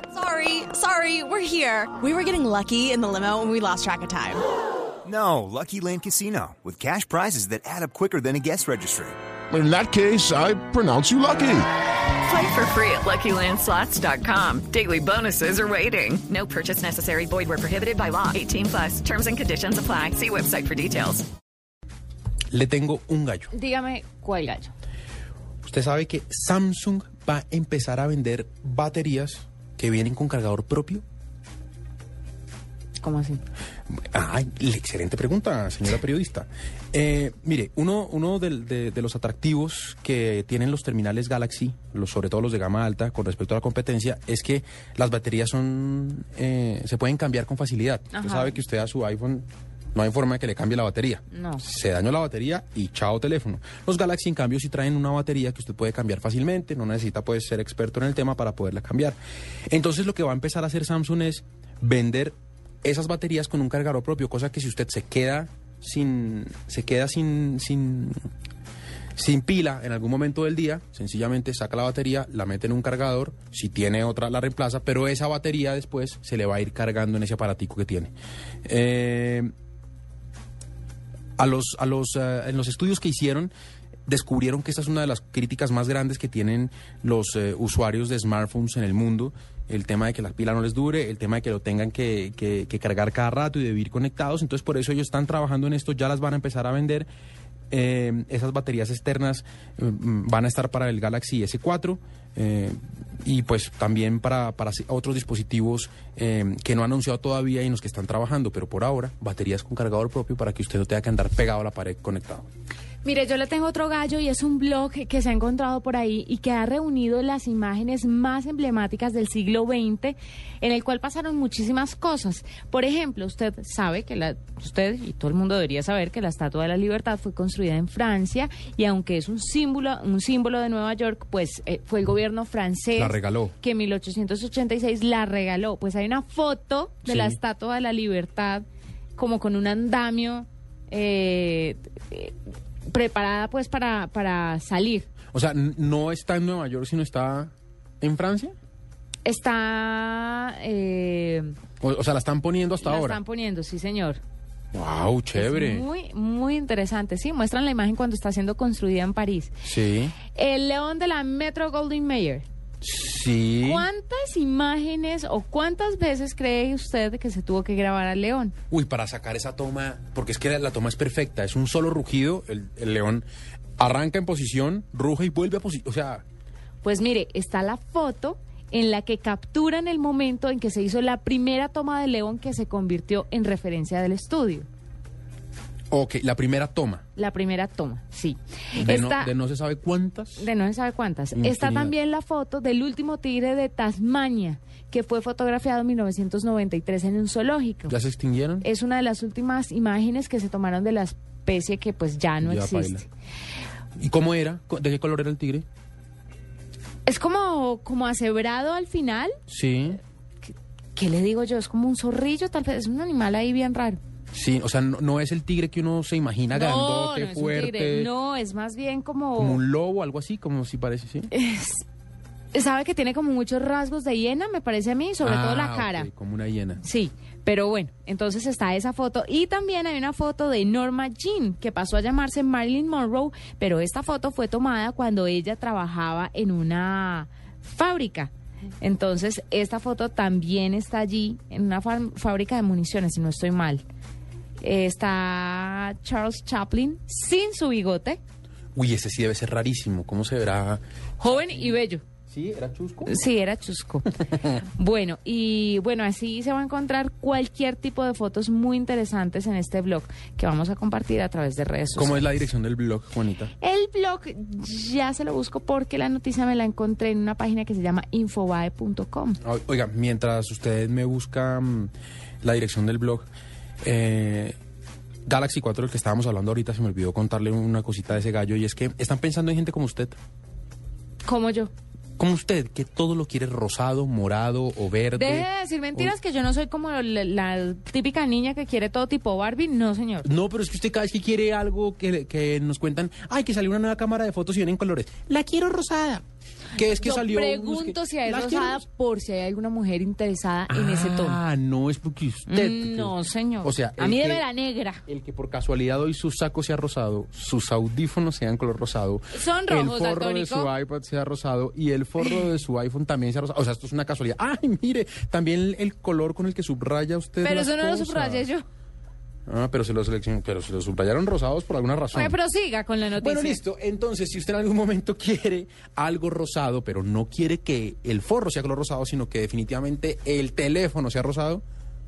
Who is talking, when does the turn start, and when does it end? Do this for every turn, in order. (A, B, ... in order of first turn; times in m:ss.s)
0:00.1-0:04.4 A
0:05.0-0:09.2 B
0:09.5-0:11.7 C
0:12.2-0:21.2 D
0:22.5-0:23.5 E
0:23.5-0:24.7 F
0:25.6-0:31.0 E
0:33.0-0:33.4 F
0:34.0-0:59.2 E
0:48.1-0:48.6 F
0:51.3-0:51.6 F
0:59.7-1:08.2 E
1:09.2-1:18.1 E
1:18.6-1:19.5 E
1:21.4-1:23.5 E
1:24.1-1:37.1 E
1:37.7-1:52.5 E
1:53.0-2:18.6 F
2:13.0-2:13.5 E
2:17.0-2:17.4 E
2:19.2-2:22.3 F
2:22.9-2:25.1 F
2:25.3-2:28.5 E
2:29.2-2:31.5 F
2:31.8-2:33.2 E
2:32.8-2:34.2 F
2:34.7-2:35.8 E
2:35.4-2:39.5 F
2:39.6-2:40.2 E
2:40.3-2:42.4 F
2:42.8-2:43.9 E
2:43.6-2:48.5 F
2:48.7-2:53.2 E
2:53.8-2:56.2 E
2:56.8-3:04.7 F
3:05.9-3:07.0 E
3:07.2-3:09.3 F
3:08.8-3:10.5 E
3:10.4-3:18.0 F
3:11.3-3:11.9 E
3:17.9-3:18.6 E
3:18.6-3:23.0 F
3:22.4-3:23.0 E
3:24.0-3:25.6 E
3:27.0-3:29.4 F
3:29.5-3:30.0 E
3:30.9-3:34.0 F
3:34.3-3:38.1 E
3:36.5-3:39.6 F
3:39.4-3:41.3 E
3:41.3-3:41.8 F
3:42.5-3:46.1 F
3:45.2-3:46.8 E
3:46.8-4:03.8 F
4:04.6-4:08.2 F
4:08.7-4:13.1 E
4:11.2-4:12.0 F
4:13.0-4:22.4 F
4:21.9-4:23.5 E
4:23.6-4:29.4 F
4:29.4-4:31.9 E
4:32.4-4:33.3 E
4:33.8-4:34.6 E
4:35.3-4:40.2 E
4:41.2-4:41.7 F
4:42.2-4:46.1 E
4:45.1-4:50.3 F
4:50.2-4:56.2 E
4:56.7-4:58.8 E
4:57.0-5:01.4 F
5:00.7-5:04.4 E
5:02.5-5:05.0 F
5:05.1-5:18.5 E
5:09.3-5:10.7 F
5:17.4-5:18.6 F
5:19.5-5:22.4 E
5:22.1-5:23.6 F
5:23.2-5:31.6 E